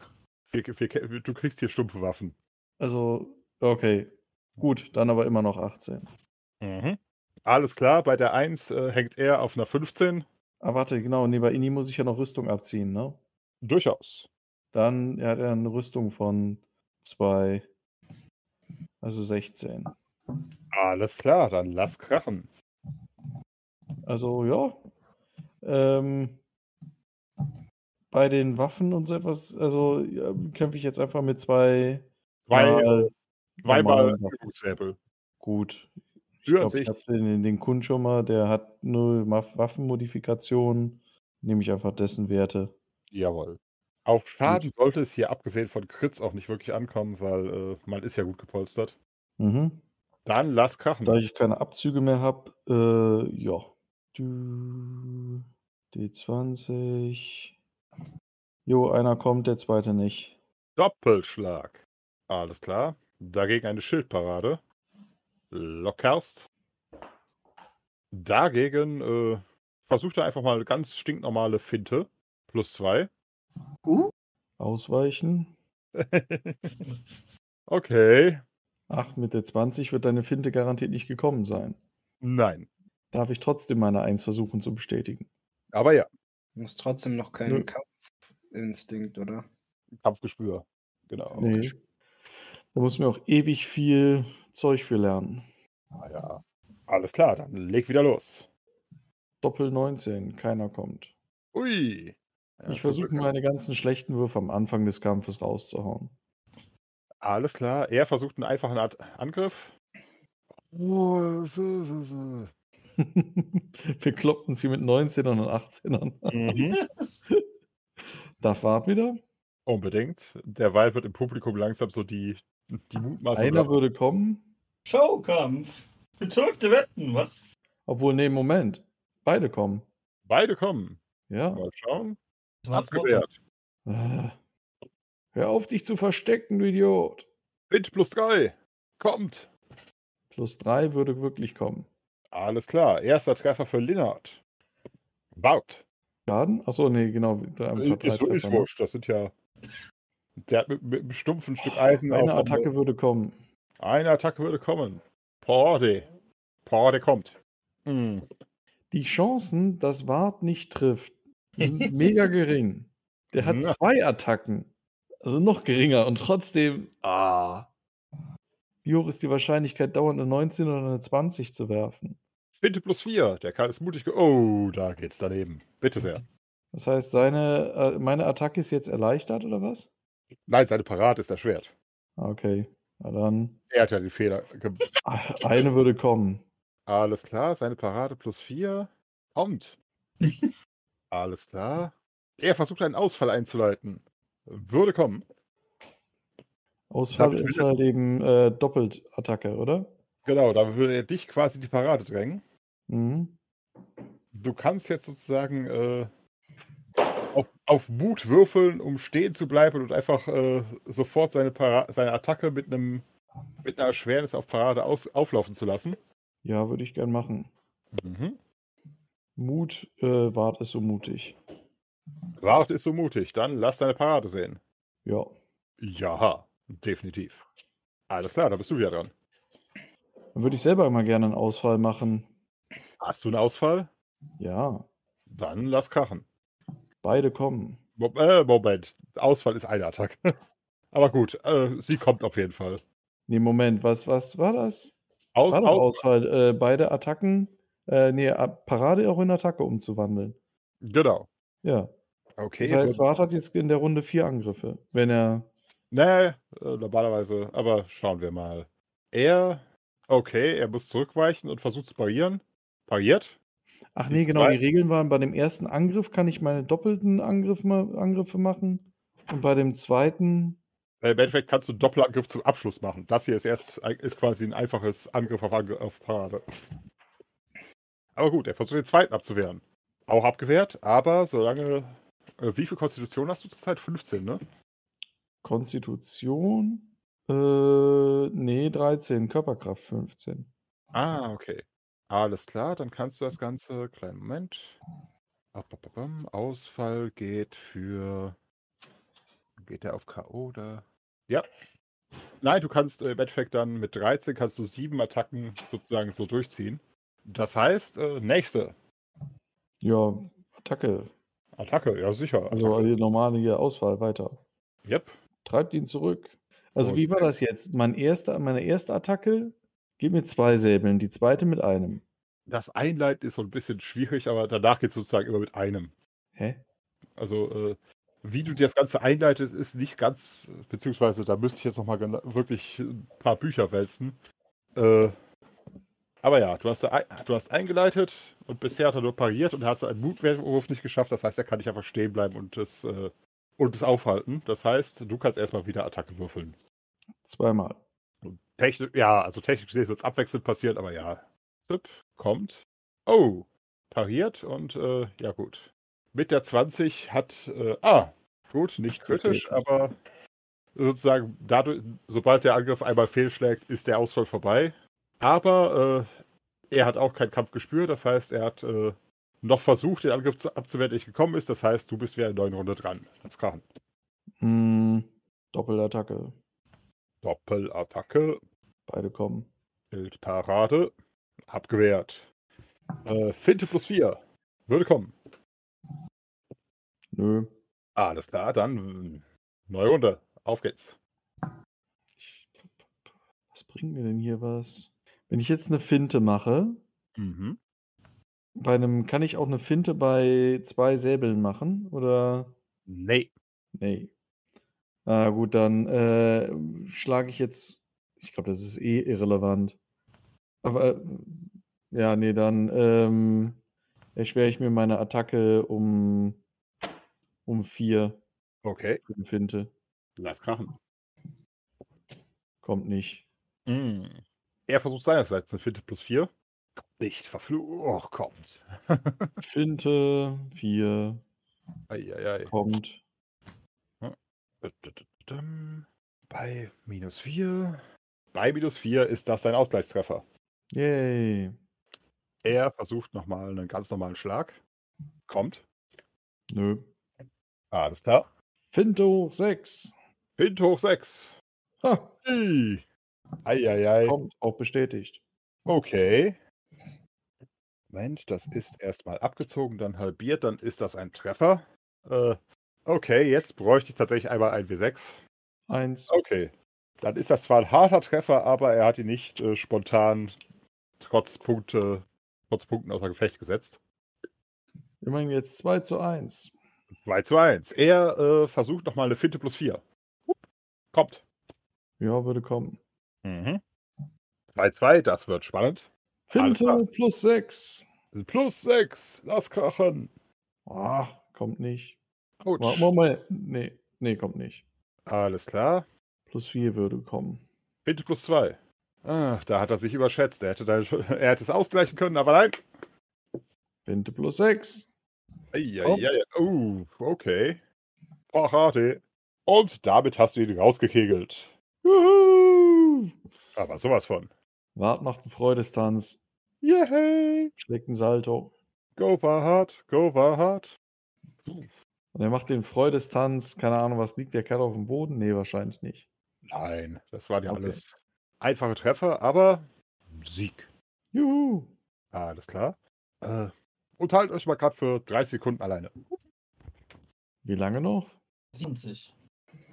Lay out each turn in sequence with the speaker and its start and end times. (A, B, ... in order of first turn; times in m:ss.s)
0:00.5-0:02.4 A
0:02.8-0:06.1 B
0:06.6-0:10.3 A
0:10.6-0:13.2 B
0:13.6-0:14.3 A
0:14.7-0:17.7 B
0:19.0-0:20.0 B
0:20.7-0:22.5 A
0:24.1-0:24.8 B
0:25.6-0:26.4 B
0:28.1-0:34.4 B
0:32.5-0:33.1 A
0:33.6-0:35.0 A
0:35.4-0:42.7 B
0:36.5-0:37.0 A
0:43.1-0:49.0 A
0:49.4-0:49.8 B
0:50.2-0:51.2 A
0:51.0-0:55.4 B
0:55.9-0:57.5 B
0:58.7-1:00.4 B
1:00.8-1:04.6 A
1:05.5-1:06.5 A
1:08.1-1:13.1 A
1:13.9-1:14.1 C
1:14.6-1:15.5 B
1:16.0-1:16.8 A
1:17.7-1:18.4 A
1:18.9-1:21.8 B
1:22.2-1:22.7 A
1:23.1-1:25.3 B
1:25.7-1:26.1 A
1:26.6-1:28.0 C
1:28.5-1:29.5 C
1:30.0-1:31.7 A
1:31.4-1:31.8 B
1:32.7-1:35.5 B
1:36.0-1:38.5 A
1:39.4-1:41.1 B
1:41.5-1:43.3 A
1:42.7-1:46.1 B
1:47.2-1:49.7 A
1:50.5-1:52.5 A
1:53.0-1:56.4 B
1:56.3-1:56.8 A
1:56.6-1:57.1 D
1:58.4-1:59.2 B
1:59.7-2:03.7 A
2:03.4-2:04.4 B
2:04.9-2:07.4 D
2:07.9-2:09.8 B
2:10.3-2:11.0 A
2:11.3-2:11.7 B
2:11.5-2:12.2 A
2:12.6-2:13.3 D
2:12.7-2:13.4 A
2:13.9-2:14.4 B
2:15.3-2:17.3 B
2:17.7-2:19.5 A
2:20.3-2:21.9 B
2:22.3-2:24.4 A
2:25.3-2:25.8 A
2:26.3-2:28.7 B
2:27.8-2:29.3 A
2:30.4-2:32.7 A
2:31.6-2:33.4 B
2:33.8-2:36.1 A
2:36.6-2:38.3 A
2:38.9-2:44.7 B
2:43.4-2:43.8 A
2:45.2-2:47.7 B
2:48.8-2:52.2 B
2:52.6-2:56.2 A
2:56.7-2:59.9 B
3:00.5-3:01.7 A
3:02.2-3:03.6 B
3:03.7-3:04.8 A
3:05.0-3:06.4 B
3:06.9-3:09.8 A
3:10.2-3:10.5 D
3:11.1-3:15.2 A
3:16.9-3:19.9 B
3:17.1-3:17.7 A
3:20.2-3:22.4 A
3:22.9-3:23.4 B
3:24.3-3:26.1 A
3:27.3-3:33.0 A
3:33.6-3:36.0 A
3:36.4-3:37.5 B
3:37.9-3:38.4 A
3:39.4-3:41.4 B
3:42.4-3:44.6 A
3:45.0-3:45.3 B
3:45.8-3:47.4 A
3:48.1-3:49.1 A
3:50.4-3:52.3 B
3:53.0-3:53.9 A
3:54.4-3:54.9 B
3:55.3-3:56.2 A
3:57.0-3:57.8 B
3:58.0-4:00.2 A
4:00.9-4:02.8 A
4:03.3-4:04.9 B
4:05.4-4:06.0 A
4:05.5-4:10.4 B
4:10.8-4:11.3 A
4:11.6-4:11.9 B
4:12.4-4:13.1 A
4:12.6-4:15.5 B
4:15.9-4:23.4 A
4:24.0-4:30.6 B
4:24.1-4:24.6 A
4:31.0-4:36.4 A
4:38.2-4:44.4 A
4:45.4-4:50.5 B
4:50.9-4:54.8 A
4:55.5-4:58.4 A
4:59.6-5:01.5 A
5:02.4-5:08.8 A
5:09.8-5:11.1 B
5:11.6-5:12.9 A
5:12.5-5:14.4 B
5:14.8-5:15.1 A
5:15.4-5:22.0 B
5:16.8-5:17.3 A
5:22.5-5:25.9 A
5:26.4-5:26.6 B
5:27.2-5:34.2 A
5:34.8-5:35.1 A
5:36.2-5:46.6 A
5:47.2-5:47.8 B
5:48.2-6:00.0 A
5:59.1-5:59.5 B
6:00.8-6:06.1 A
6:06.7-6:13.7 A
6:14.4-6:16.4 B
6:17.2-6:18.4 A
6:18.9-6:19.5 B
6:19.9-6:20.9 A
6:21.5-6:22.3 A
6:23.0-6:25.2 A
6:27.1-6:27.5 B
6:28.0-6:31.0 A
6:32.2-6:33.0 B
6:33.5-6:36.8 B
6:37.2-6:37.6 A
6:38.6-6:42.5 B
6:42.9-6:43.3 A
6:43.8-6:44.1 B
6:45.1-6:49.8 B
6:50.6-6:53.6 B
6:54.2-6:56.4 B
6:57.4-6:58.2 B
6:58.6-6:59.0 A
6:59.1-6:59.7 B
7:00.2-7:00.7 A
7:02.6-7:03.3 B
7:03.7-7:09.3 A
7:09.4-7:11.2 B
7:11.9-7:12.5 A
7:12.5-7:13.0 B
7:14.0-7:17.8 A
7:18.3-7:20.2 A
7:20.7-7:21.6 B
7:22.4-7:24.6 A
7:25.3-7:25.6 A
7:26.5-7:26.9 B
7:27.7-7:28.2 A
7:28.7-7:29.9 B
7:30.4-7:31.3 A
7:31.8-7:32.2 B
7:32.2-7:32.8 A
7:33.4-7:34.2 A
7:34.0-7:35.2 B
7:35.7-7:36.4 A
7:37.9-7:45.2 A
7:45.7-7:46.1 B
7:46.1-7:50.4 A
7:51.0-7:53.8 A
7:55.0-7:56.5 B
7:56.9-8:00.4 A
8:00.9-8:01.2 A
8:02.0-8:02.8 B
8:03.2-8:03.6 A
8:04.5-8:06.9 A
8:06.3-8:07.8 B
8:08.1-8:10.1 A
8:10.7-8:12.0 B
8:12.4-8:12.9 A
8:12.6-8:14.6 B
8:15.1-8:15.9 A
8:16.3-8:17.4 B
8:17.8-8:22.6 A
8:23.8-8:24.9 B
8:25.5-8:27.6 A
8:25.8-8:26.1 B
8:28.3-8:31.5 A
8:31.8-8:33.1 B
8:33.5-8:34.3 A
8:34.8-8:36.2 B
8:36.6-8:37.5 A
8:37.6-8:38.5 B
8:39.0-8:40.8 A
8:42.1-8:46.1 B
8:46.5-8:50.7 A
8:47.5-8:47.8 B
8:51.1-8:51.7 B
8:52.1-8:56.2 A
8:57.4-8:58.1 B
8:58.5-8:59.1 D